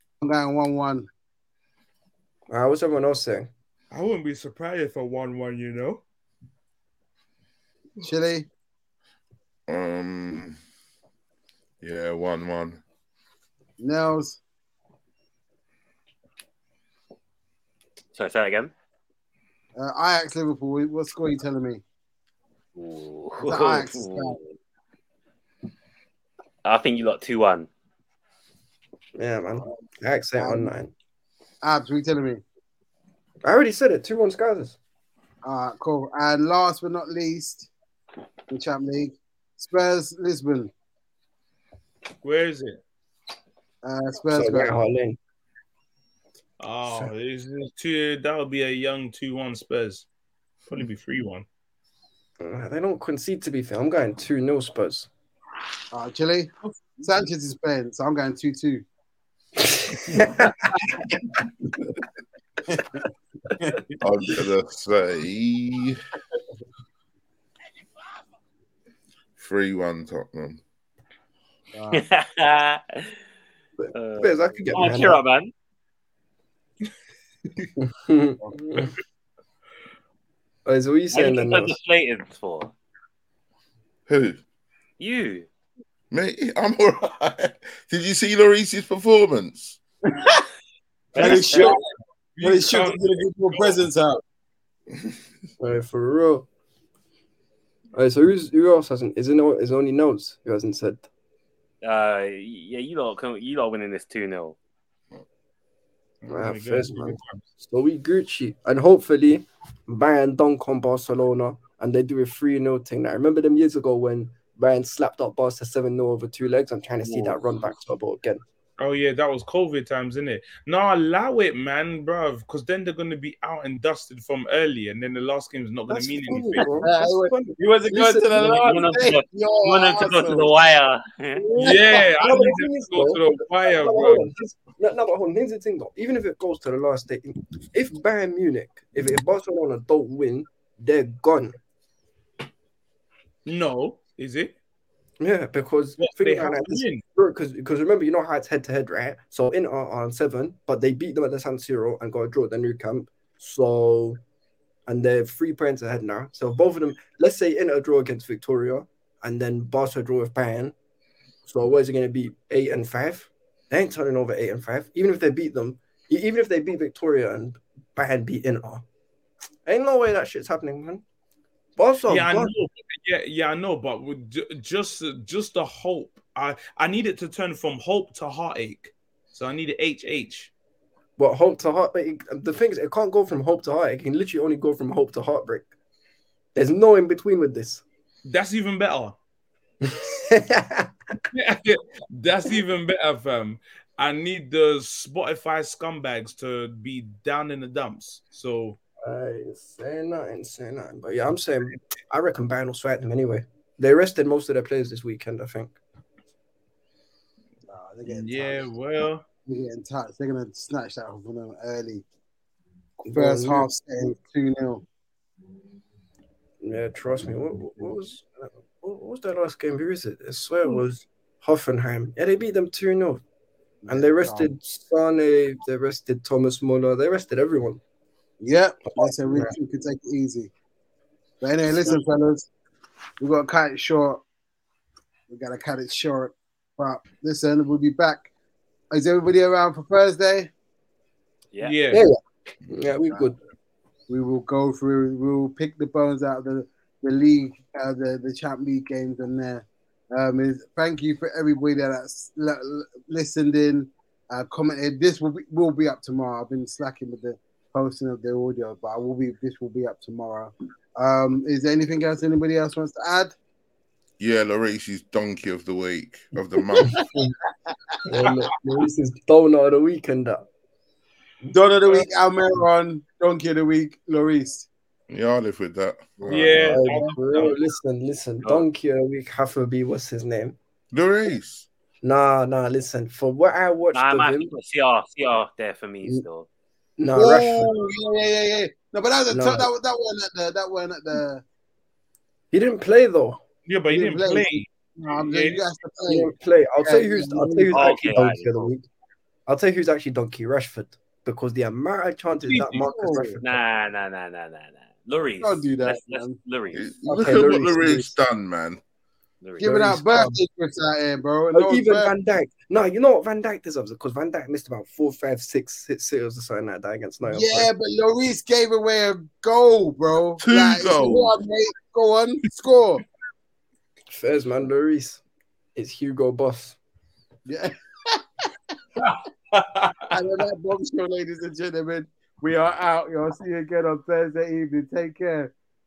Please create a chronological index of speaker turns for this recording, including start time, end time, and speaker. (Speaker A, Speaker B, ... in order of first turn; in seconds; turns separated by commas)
Speaker A: 0.2-1.1, Speaker B: 2.5-3.5, Speaker C: 3.9-6.0, Speaker A: 8.0-8.5, Speaker D: 9.7-10.6, Speaker D: 11.8-12.8, Speaker A: 13.8-14.4, Speaker E: 18.1-18.7, Speaker A: 19.8-21.8, Speaker E: 22.8-24.5, Speaker A: 23.5-24.4, Speaker E: 26.6-27.7, Speaker B: 29.1-30.9, Speaker A: 30.4-30.7, Speaker A: 31.6-32.4, Speaker B: 33.4-34.8, Speaker A: 35.4-37.7, Speaker A: 38.5-40.7, Speaker C: 42.2-42.8, Speaker A: 43.8-44.8, Speaker B: 44.3-45.2, Speaker C: 46.6-50.1, Speaker B: 46.8-47.1, Speaker C: 50.7-51.5, Speaker B: 52.4-55.1, Speaker A: 55.9-58.8, Speaker B: 59.7-60.6, Speaker A: 62.7-63.0, Speaker D: 64.0-66.0, Speaker D: 69.4-70.6, Speaker A: 71.7-72.0, Speaker E: 71.9-73.1, Speaker B: 73.8-75.2, Speaker E: 73.9-75.5, Speaker B: 77.8-78.9, Speaker B: 80.7-81.8, Speaker E: 81.1-82.7, Speaker D: 84.1-84.4, Speaker E: 85.0-85.5, Speaker D: 86.1-89.8, Speaker A: 90.1-90.4, Speaker E: 91.1-91.7, Speaker A: 91.2-91.8, Speaker C: 91.2-91.8, Speaker C: 92.3-93.8, Speaker A: 92.4-94.2, Speaker B: 95.6-96.5, Speaker B: 97.9-101.0, Speaker E: 101.8-104.6, Speaker C: 106.2-107.4, Speaker B: 106.3-118.4, Speaker C: 118.8-126.7, Speaker B: 125.9-128.8, Speaker A: 126.6-130.5, Speaker E: 128.4-131.4, Speaker B: 131.3-141.6, Speaker A: 131.6-131.8, Speaker C: 131.6-134.3, Speaker C: 143.4-144.5, Speaker B: 145.2-154.2, Speaker C: 146.0-147.0, Speaker B: 154.9-160.7, Speaker B: 161.4-168.8, Speaker B: 169.7-171.0, Speaker B: 171.8-172.5, Speaker C: 172.1-180.5, Speaker B: 181.2-185.7, Speaker B: 186.5-187.8, Speaker C: 188.2-189.2, Speaker B: 189.8-190.9, Speaker C: 191.3-198.8, Speaker B: 199.0-205.8, Speaker A: 207.7-208.7, Speaker C: 208.1-209.2, Speaker A: 209.4-212.0, Speaker B: 213.0-213.7, Speaker A: 213.1-214.8, Speaker B: 216.6-223.2, Speaker A: 223.8-224.5, Speaker B: 223.9-227.8, Speaker A: 228.4-230.5, Speaker B: 228.9-229.6, Speaker A: 231.4-232.5, Speaker A: 233.2-234.2, Speaker A: 235.3-238.3, Speaker A: 238.9-240.5, Speaker C: 241.6-242.1, Speaker B: 241.9-243.4, Speaker A: 244.1-263.3, Speaker D: 264.2-267.2, Speaker A: 266.8-267.3, Speaker B: 268.0-270.4, Speaker A: 271.5-274.7, Speaker D: 275.1-276.8, Speaker C: 276.3-277.6, Speaker B: 276.6-280.6, Speaker D: 280.9-281.7, Speaker B: 282.0-284.5, Speaker E: 283.9-286.4, Speaker B: 287.0-287.7, Speaker A: 287.1-291.4, Speaker B: 289.3-289.7, Speaker B: 292.5-293.4, Speaker C: 293.6-295.6, Speaker A: 293.9-296.3, Speaker B: 296.1-298.9, Speaker A: 296.8-297.9, Speaker E: 297.7-298.7, Speaker B: 299.5-303.6, Speaker C: 302.4-302.9, Speaker A: 302.8-303.4, Speaker E: 303.4-306.8, Speaker A: 305.4-306.3, Speaker D: 306.7-308.8, Speaker B: 307.1-308.1, Speaker E: 309.4-309.7, Speaker B: 309.6-310.4, Speaker A: 309.6-312.1, Speaker B: 311.5-317.7, Speaker A: 317.3-323.0, Speaker D: 320.4-321.4, Speaker B: 324.1-325.2, Speaker B: 325.7-326.8, Speaker A: 327.4-328.2, Speaker C: 329.0-330.1, Speaker A: 330.1-335.5